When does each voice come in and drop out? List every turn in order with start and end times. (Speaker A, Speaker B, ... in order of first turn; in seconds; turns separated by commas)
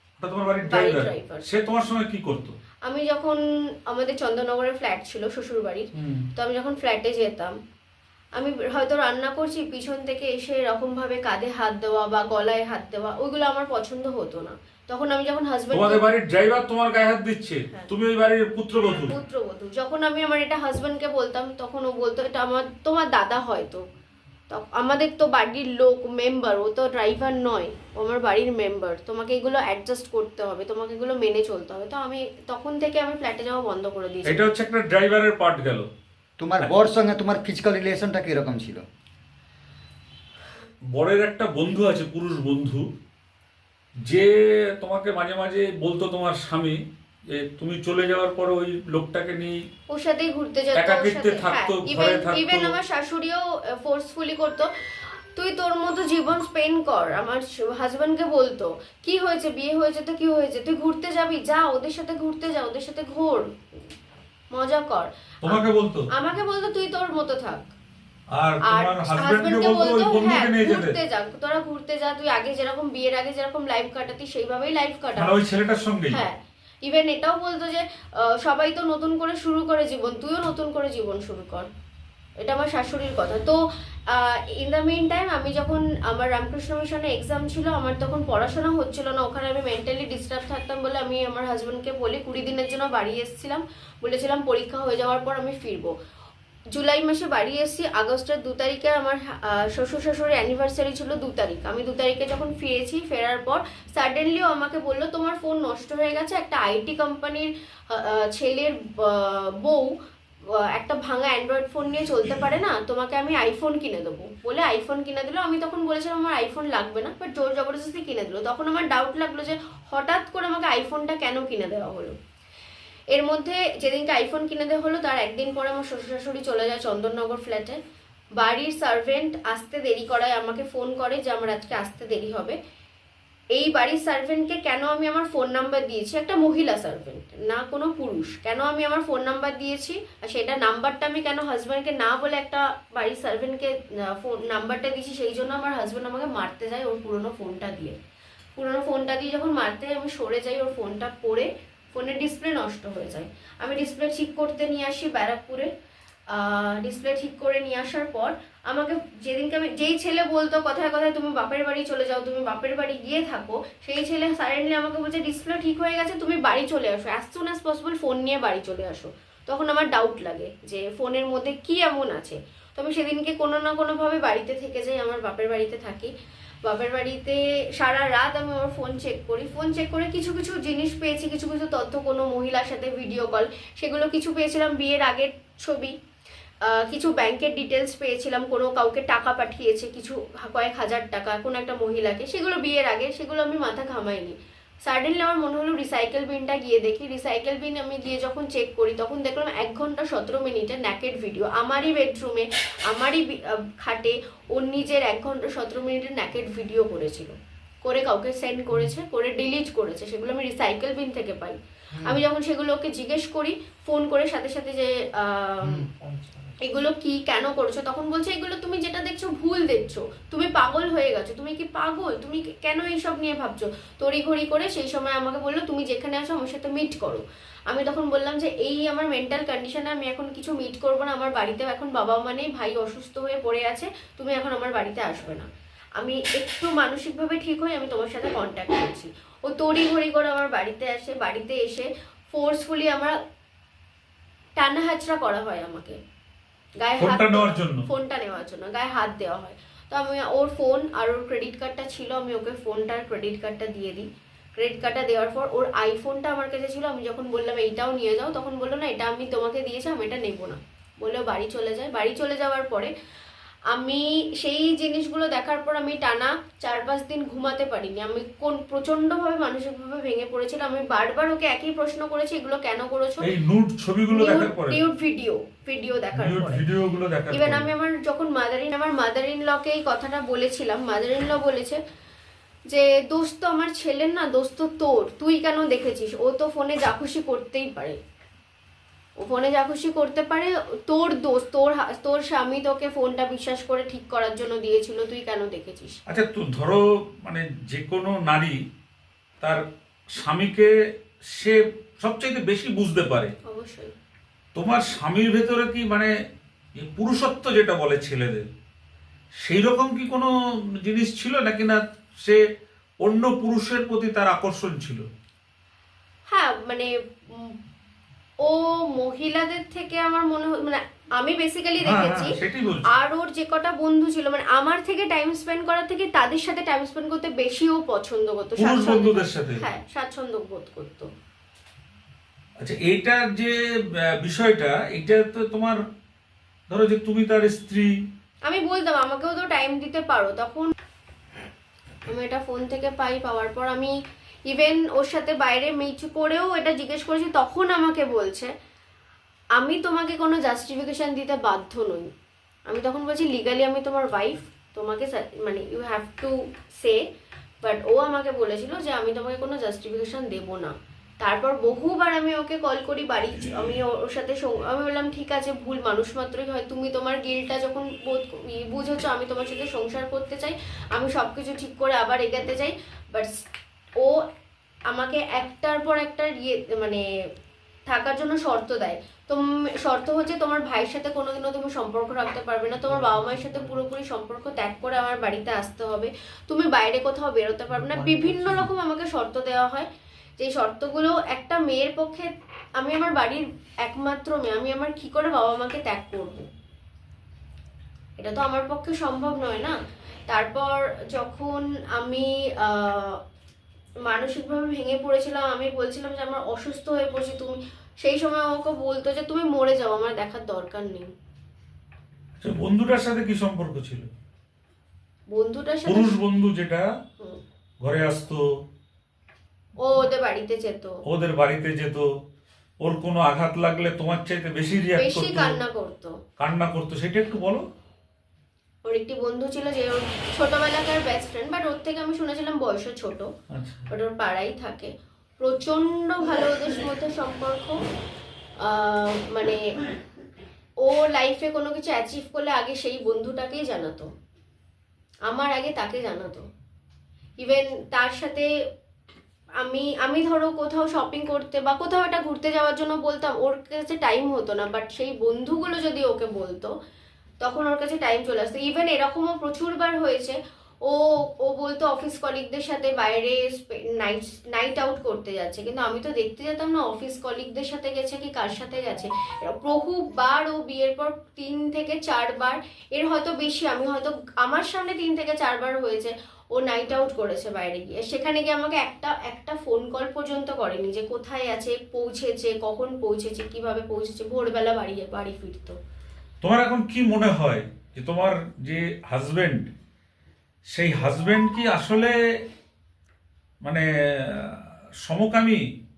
Speaker A: 0.2-2.5, Speaker B: 0.6-1.5, Speaker B: 2.8-7.6, Speaker A: 6.0-6.3, Speaker B: 8.4-16.0, Speaker A: 15.7-19.1, Speaker B: 19.1-23.8, Speaker B: 24.5-34.5, Speaker A: 34.3-35.9, Speaker C: 36.4-38.9, Speaker A: 40.9-42.9, Speaker A: 44.1-49.6, Speaker B: 49.9-63.5, Speaker A: 50.8-52.8, Speaker B: 64.5-67.7, Speaker A: 65.4-66.1, Speaker A: 68.3-71.0, Speaker B: 68.7-75.4, Speaker A: 75.2-76.2, Speaker B: 76.1-81.7, Speaker B: 82.4-95.9, Speaker B: 96.7-109.9, Speaker B: 110.5-122.2, Speaker B: 123.1-127.8, Speaker B: 128.4-132.6, Speaker B: 133.5-147.9, Speaker B: 148.6-155.7, Speaker B: 156.3-176.1, Speaker B: 176.6-186.0, Speaker B: 186.6-215.9, Speaker B: 216.6-243.2, Speaker B: 244.6-246.0, Speaker B: 246.8-254.1, Speaker A: 247.0-247.9, Speaker B: 254.6-262.9, Speaker B: 263.7-273.3, Speaker A: 273.2-274.8, Speaker B: 274.1-276.6, Speaker A: 276.1-277.6, Speaker B: 277.3-281.8, Speaker B: 282.7-288.0, Speaker B: 289.2-296.0, Speaker A: 296.1-298.6, Speaker A: 299.4-300.7, Speaker A: 301.3-303.3, Speaker B: 303.4-303.9, Speaker A: 304.6-306.1, Speaker A: 306.8-308.5, Speaker A: 309.4-312.4, Speaker A: 313.0-315.1, Speaker B: 316.3-317.6, Speaker B: 318.4-322.4, Speaker A: 321.8-322.9, Speaker B: 322.9-331.1, Speaker A: 328.6-329.6, Speaker A: 332.6-335.8, Speaker A: 336.7-337.9, Speaker B: 338.4-340.7, Speaker B: 342.1-343.9, Speaker B: 344.5-348.5, Speaker B: 349.6-352.1, Speaker B: 352.7-357.0, Speaker B: 357.6-373.4, Speaker B: 374.0-374.3, Speaker B: 374.9-377.0, Speaker B: 377.9-389.9, Speaker B: 390.4-396.5, Speaker B: 398.2-399.8, Speaker B: 400.3-403.2, Speaker B: 404.0-411.1, Speaker A: 412.4-414.1, Speaker B: 415.3-416.1, Speaker A: 415.9-416.9, Speaker A: 417.8-418.5, Speaker B: 419.8-421.0, Speaker A: 421.1-422.1, Speaker A: 422.8-425.6, Speaker B: 425.0-426.2, Speaker A: 426.4-427.6, Speaker B: 428.9-433.3, Speaker A: 433.5-433.9, Speaker B: 433.9-437.8, Speaker B: 438.6-439.7, Speaker B: 440.8-444.1, Speaker B: 445.3-446.4, Speaker B: 447.4-448.5, Speaker B: 449.6-456.7, Speaker B: 457.4-485.8, Speaker A: 486.4-489.7, Speaker A: 490.7-492.4, Speaker A: 493.6-495.6